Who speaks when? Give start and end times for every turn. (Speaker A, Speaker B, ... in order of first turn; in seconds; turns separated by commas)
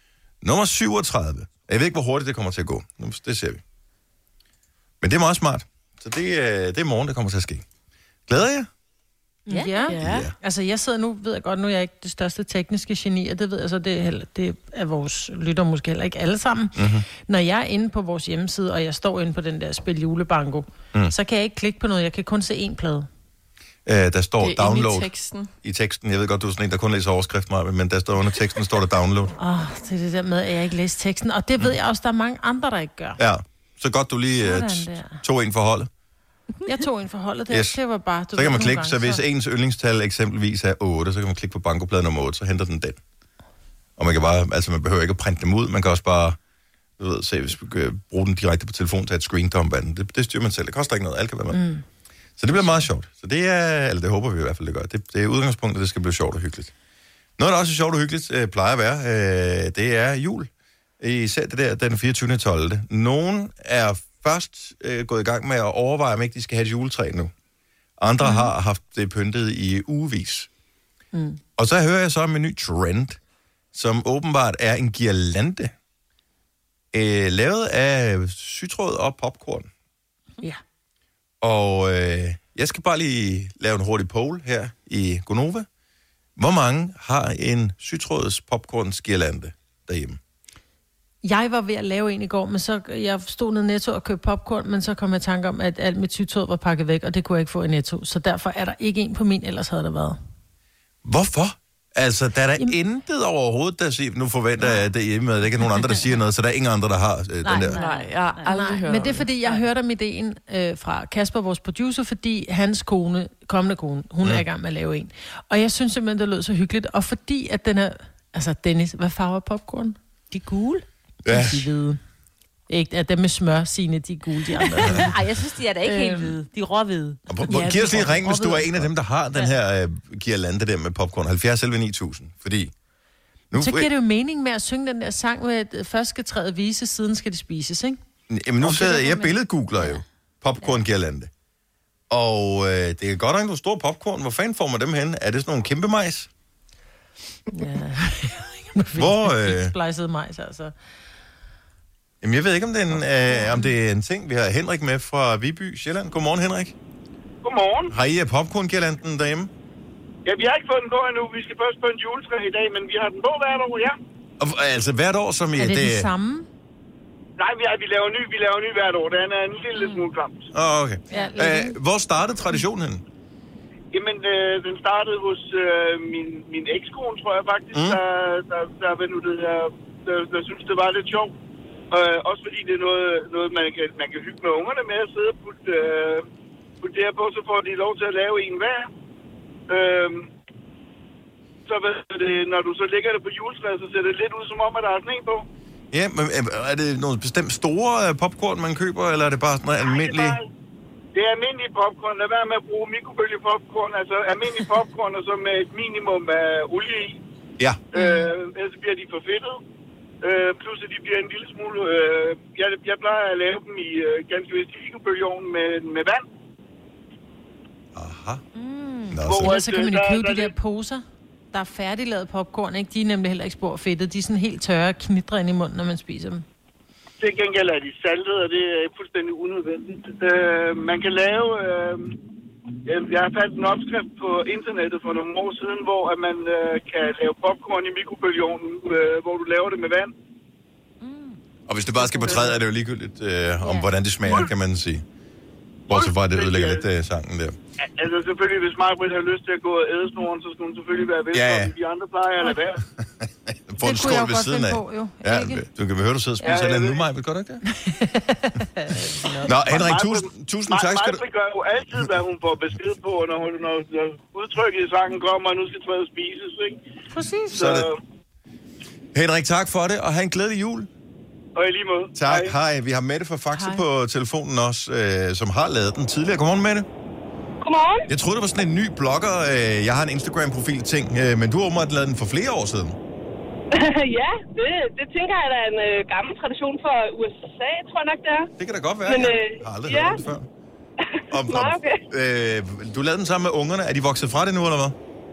Speaker A: 0.4-3.6, Speaker A: 5.0-7.7, Speaker A: 8.3-8.7, Speaker B: 9.5-23.1, Speaker C: 9.5-10.2, Speaker D: 9.9-10.2, Speaker A: 9.9-10.3, Speaker A: 16.7-17.1, Speaker A: 23.8-25.1, Speaker D: 24.4-25.5, Speaker A: 25.6-29.3, Speaker B: 29.4-33.2, Speaker A: 33.2-35.9, Speaker B: 34.3-35.2, Speaker B: 36.6-39.2, Speaker A: 37.5-37.8, Speaker A: 38.3-43.0, Speaker A: 44.0-46.4, Speaker A: 47.0-51.6, Speaker B: 51.5-51.8, Speaker A: 52.4-56.7, Speaker B: 52.5-52.8, Speaker A: 57.4-60.5, Speaker A: 61.0-67.3, Speaker A: 68.0-70.5, Speaker B: 71.1-71.4, Speaker A: 71.6-73.2, Speaker A: 73.7-75.7, Speaker A: 76.9-79.7, Speaker A: 81.4-85.7, Speaker A: 86.3-90.2, Speaker B: 91.2-100.2, Speaker A: 101.0-107.8, Speaker C: 107.4-108.6, Speaker D: 107.8-109.3, Speaker B: 108.4-120.0, Speaker C: 120.3-120.8, Speaker A: 121.2-121.7, Speaker B: 121.3-122.0, Speaker B: 122.7-125.2, Speaker C: 124.5-127.2, Speaker B: 125.8-126.3, Speaker A: 127.3-132.7, Speaker B: 127.5-128.7, Speaker C: 127.7-128.2, Speaker A: 133.5-133.9, Speaker B: 133.6-138.0, Speaker A: 138.3-141.3, Speaker B: 138.6-139.2, Speaker C: 138.7-140.0, Speaker A: 142.1-146.3, Speaker B: 147.5-150.7, Speaker A: 149.0-149.7, Speaker A: 152.2-156.7, Speaker B: 153.4-153.6, Speaker E: 157.4-157.9, Speaker A: 157.9-159.5, Speaker E: 160.2-164.0, Speaker A: 164.4-166.1, Speaker B: 165.6-166.5, Speaker E: 167.4-170.5, Speaker C: 169.7-170.1, Speaker A: 170.5-173.0, Speaker C: 171.1-171.5, Speaker B: 171.1-171.7, Speaker E: 173.9-181.3, Speaker A: 177.7-178.0, Speaker E: 181.9-186.2, Speaker E: 186.8-188.9, Speaker E: 189.7-190.3, Speaker E: 191.7-195.4, Speaker A: 195.9-200.4, Speaker F: 200.0-200.3, Speaker E: 201.1-207.2, Speaker A: 207.6-207.8, Speaker E: 207.9-209.6, Speaker B: 208.0-208.2, Speaker E: 210.2-216.2, Speaker A: 217.9-218.4, Speaker C: 218.5-219.2, Speaker A: 219.1-219.5, Speaker E: 219.2-220.5, Speaker B: 219.3-226.4, Speaker E: 227.2-232.2, Speaker E: 232.8-240.1, Speaker C: 241.0-241.4, Speaker A: 241.7-245.0, Speaker C: 242.0-242.5, Speaker C: 243.6-243.9, Speaker A: 245.9-247.6, Speaker E: 245.9-246.8, Speaker E: 247.8-252.8, Speaker A: 251.3-251.7, Speaker A: 253.2-257.6, Speaker B: 253.8-255.6, Speaker E: 256.4-257.0, Speaker B: 257.8-259.5, Speaker A: 259.4-261.2, Speaker E: 259.6-266.8, Speaker B: 267.1-267.6, Speaker E: 267.5-268.0, Speaker A: 267.5-267.9, Speaker A: 269.1-270.9, Speaker E: 271.6-272.5, Speaker A: 272.1-276.9, Speaker B: 273.5-273.8, Speaker F: 277.6-278.0, Speaker A: 278.1-283.0, Speaker F: 283.7-288.5, Speaker A: 288.6-290.5, Speaker F: 289.1-290.2, Speaker A: 291.3-294.9, Speaker F: 291.4-292.0